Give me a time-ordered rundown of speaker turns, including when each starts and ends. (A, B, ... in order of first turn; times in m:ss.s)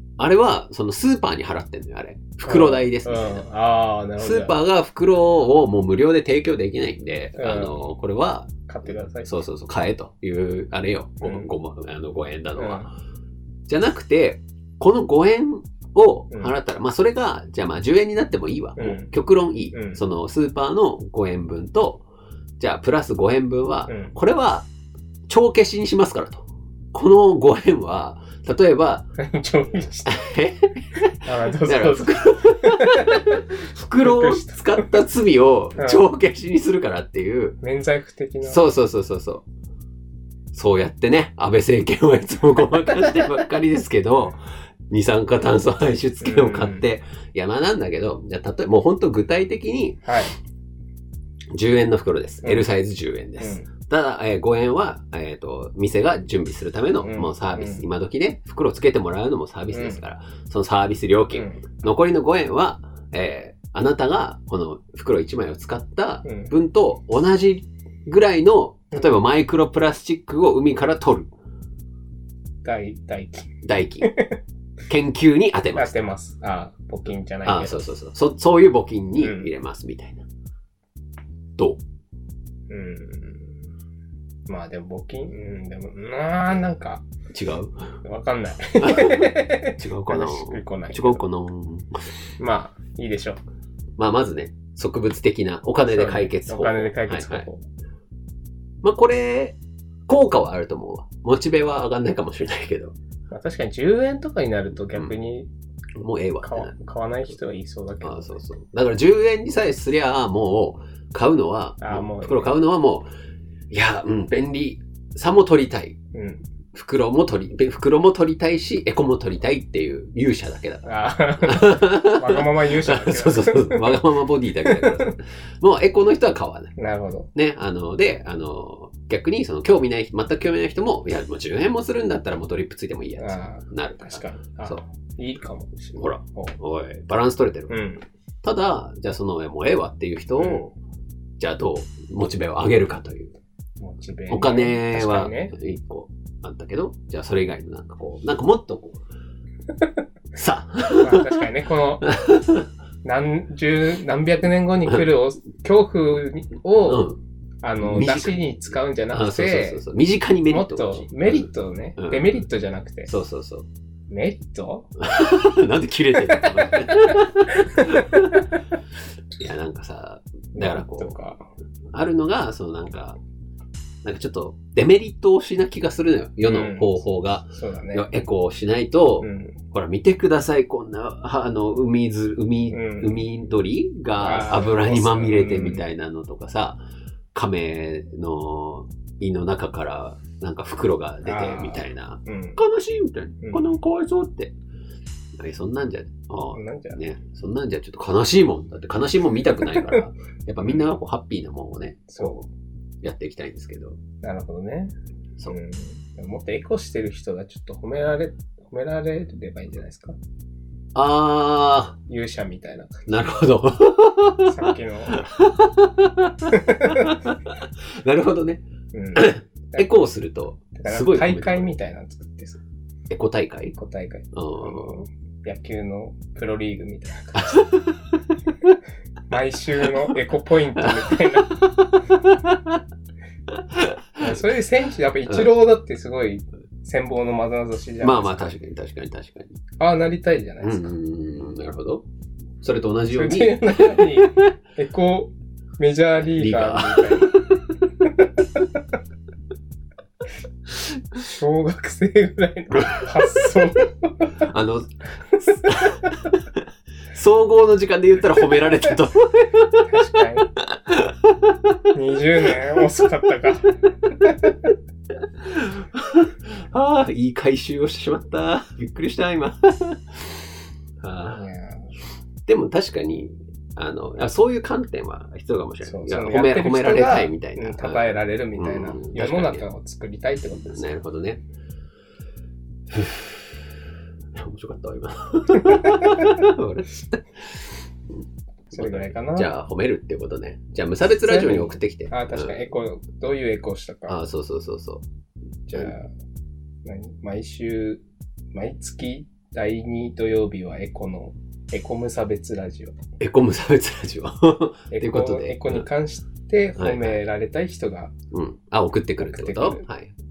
0:00.2-0:03.4 A
0:02.4-0:04.6 B
0:04.2-0:08.5 A
0:07.4-0:07.9 B
0:08.7-0:09.4 B
0:09.2-0:12.9 A
0:11.2-0:11.5 B
0:12.6-0:12.9 B
0:13.7-0:22.0 A
0:18.8-0:19.1 B
0:19.7-0:20.0 B
0:22.6-0:24.7 A
0:23.9-0:24.2 B
0:25.3-0:29.1 A
0:29.2-0:30.3 B
0:30.1-0:37.6 A
0:31.2-0:33.4 B
0:34.0-0:34.9 B
0:35.8-0:36.0 B
0:37.6-0:38.6 B
0:38.4-0:39.4 A
0:40.5-0:44.4 A
0:44.9-0:50.1 A
0:46.2-0:46.8 B
0:50.0-0:50.4 B
0:51.5-1:11.3 A
0:52.4-0:52.7 B
0:53.4-0:53.7 B
0:57.0-0:57.8 B
0:59.7-1:00.0 B
1:01.3-1:01.8 B
1:06.2-1:06.5 B
1:12.6-1:14.4 B
1:13.6-1:14.1 A
1:14.9-1:16.0 A
1:15.8-1:17.8 B
1:17.5-1:20.3 A
1:19.2-1:19.5 B
1:22.7-1:23.7 B
1:24.5-1:27.0 B
1:27.3-1:27.8 A
1:28.0-1:31.2 B
1:28.8-1:32.0 A
1:32.4-1:33.4 B
1:34.0-1:37.5 A
1:35.9-1:37.6 B
1:38.8-1:43.0 A
1:43.3-1:45.5 B
1:46.0-1:46.7 A
1:46.4-1:48.4 B
1:48.0-1:53.1 A
1:51.8-1:52.6 B
1:53.7-1:56.0 A
1:56.1-1:56.4 B
1:56.7-2:00.9 A
2:00.8-2:04.0 B
2:01.4-2:06.7 A
2:04.6-2:05.2 B
2:06.8-2:07.3 B
2:07.4-2:14.8 A
2:13.2-2:16.6 B
2:16.0-2:17.7 A
2:17.7-2:18.0 B
2:18.4-2:20.7 A
2:20.4-2:20.7 B
2:21.4-2:23.4 A
2:23.8-2:25.5 B
2:24.3-2:29.0 A
2:30.3-2:31.4 A
2:31.0-2:32.1 B
2:32.0-2:32.7 A
2:33.0-2:37.1 B
2:36.8-2:37.2 A
2:37.6-2:39.8 B
2:37.8-2:38.5 A
2:39.1-2:42.4 A
2:40.5-2:43.1 B
2:43.1-2:43.7 A
2:44.1-2:44.9 B
2:45.0-2:48.5 A
2:46.3-2:48.6 B
2:49.4-2:51.2 A
2:50.5-2:51.4 B
2:51.9-2:53.2 A
2:54.0-3:06.8 A
2:56.4-2:58.1 B
2:59.2-2:59.6 B
3:02.7-3:03.2 B
3:04.2-3:05.8 B
3:07.3-3:14.6 A
3:11.2-3:12.6 B
3:13.4-3:13.7 B
3:15.4-3:22.4 A
3:16.5-3:17.0 B
3:22.1-3:22.5 B
3:23.0-3:24.0 A
3:24.2-3:25.0 B
3:25.5-3:30.2 B
3:31.0-3:32.0 A
3:32.1-3:33.4 B
3:33.1-3:38.6 A
3:34.4-3:35.3 B
3:36.5-3:37.2 B
3:38.9-3:39.9 B
3:39.2-3:41.7 A
3:40.7-3:42.6 B
3:43.1-3:43.8 A
3:43.7-3:47.7 B
3:44.3-3:45.0 A
3:47.4-3:48.0 A
3:49.3-3:51.6 B
3:50.8-3:52.8 A
3:53.6-3:54.4 A
3:54.2-3:58.5 B
3:58.0-3:59.6 A
3:59.8-4:00.9 B
4:00.6-4:02.1 A
4:02.6-4:04.4 A
4:03.1-4:08.7 B
4:06.2-4:07.6 A
4:11.2-4:14.4 B
4:12.7-4:13.7 A
4:14.4-4:14.9 A
4:15.3-4:16.2 B
4:15.5-4:16.4 A
4:17.1-4:20.0 A
4:19.8-4:20.5 B
4:20.6-4:21.8 A
4:21.9-4:24.7 B
4:25.4-4:30.4 A
4:31.0-4:31.4 A
4:31.3-4:31.9 B
4:32.5-4:39.7 A
4:35.8-4:40.9 B
4:40.7-4:41.4 A
4:42.9-4:43.5 A
4:44.3-4:52.7 A
4:45.6-4:46.4 B
4:48.7-4:49.5 B
4:51.1-4:54.2 B
4:54.1-4:55.0 A
4:55.7-4:56.1 B
4:56.8-4:58.0 B
4:58.5-5:03.0 B
5:03.2-5:05.9 A
5:04.9-5:08.1 B
5:06.8-5:07.2 A
5:08.3-5:10.1 A
5:09.2-5:09.8 B